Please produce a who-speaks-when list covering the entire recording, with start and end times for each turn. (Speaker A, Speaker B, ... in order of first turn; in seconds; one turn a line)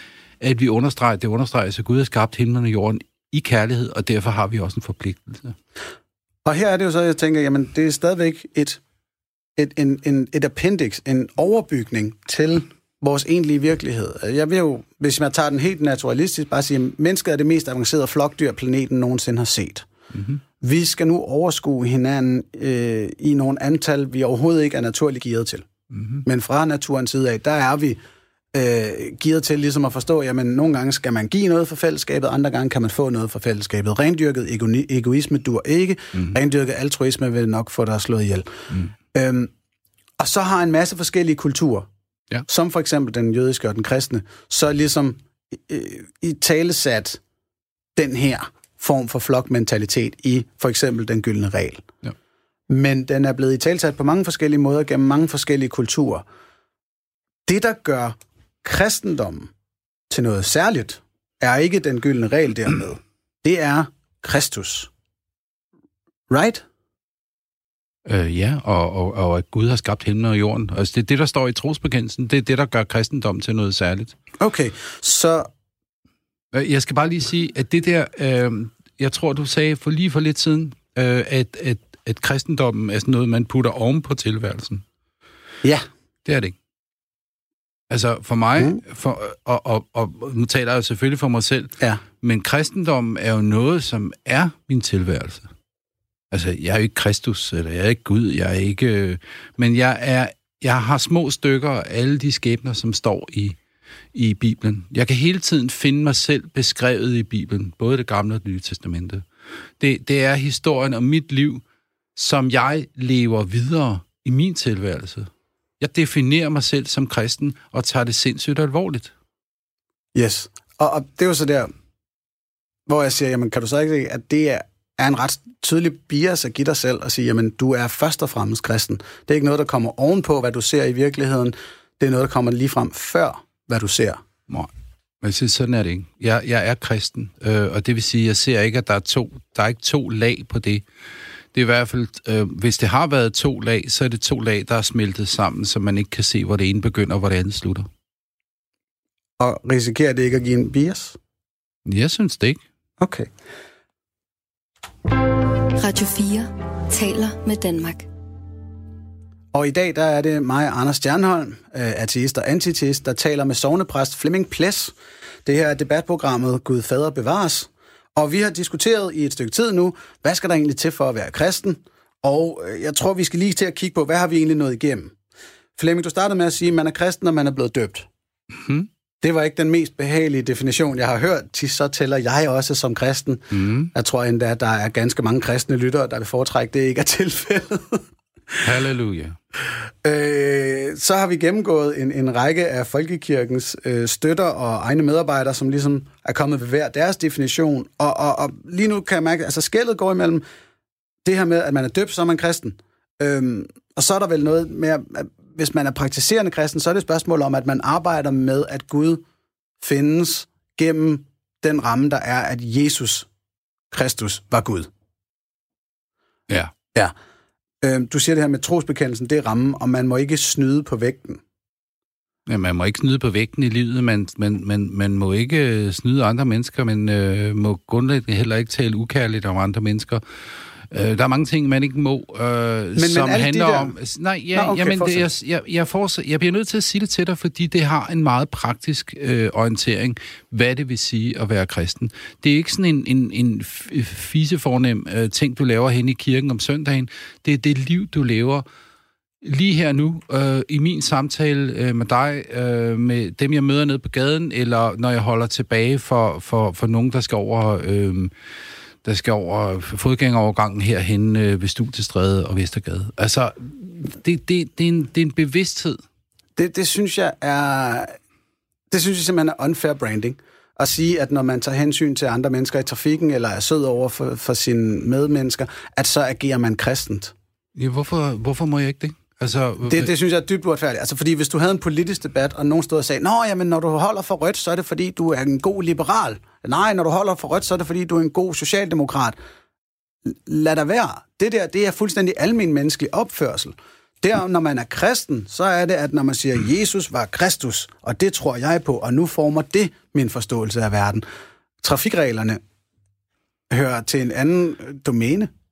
Speaker A: 0.4-5.5
Speaker B: 6.4-8.8
Speaker B: 9.6-19.9
Speaker A: 20.1-20.4
Speaker B: 20.6-25.7
Speaker A: 25.9-26.2
Speaker B: 26.2-28.0
Speaker B: 28.5-38.5
Speaker B: 39.1-39.5
Speaker B: 40.2-41.9
Speaker B: 42.5-47.2
Speaker B: 48.0-51.9
Speaker B: 52.7-56.2
Speaker B: 57.5-59.5
Speaker B: 60.1-64.9
Speaker B: 66.3-66.6
Speaker A: 68.0-74.2
Speaker B: 74.4-75.5
Speaker A: 76.5-84.8
Speaker B: 85.6-85.9
Speaker A: 86.2-86.5
Speaker A: 87.9-95.5
Speaker A: 96.3-103.6
Speaker A: 104.1-109.2
Speaker A: 109.8-111.6
Speaker A: 112.2-119.1
Speaker B: 120.1-121.7
Speaker B: 122.9-134.2
Speaker A: 135.2-140.8
Speaker A: 141.5-147.9
Speaker B: 149.4-151.2
Speaker A: 151.9-152.6
Speaker B: 153.0-153.3
Speaker C: 155.7-158.1
Speaker B: 159.5-164.9
Speaker B: 165.4-175.1
Speaker B: 175.8-178.1
Speaker A: 178.5-178.9
Speaker B: 179.2-188.6
Speaker A: 183.5-183.9
Speaker A: 188.6-189.4
Speaker B: 190.0-200.4
Speaker B: 201.2-209.2
Speaker B: 209.8-213.3
Speaker B: 213.9-214.9
Speaker B: 217.8-221.4
Speaker A: 222.5-230.2
Speaker A: 230.9-248.6
Speaker B: 233.0-233.9
Speaker B: 234.5-235.3
Speaker A: 249.4-258.3
Speaker A: 259.0-266.0
Speaker B: 266.6-268.1
Speaker B: 268.9-277.3
Speaker A: 277.8-280.1
Speaker B: 279.9-289.4
Speaker B: 290.2-301.2
Speaker B: 301.8-302.6
Speaker B: 303.7-305.5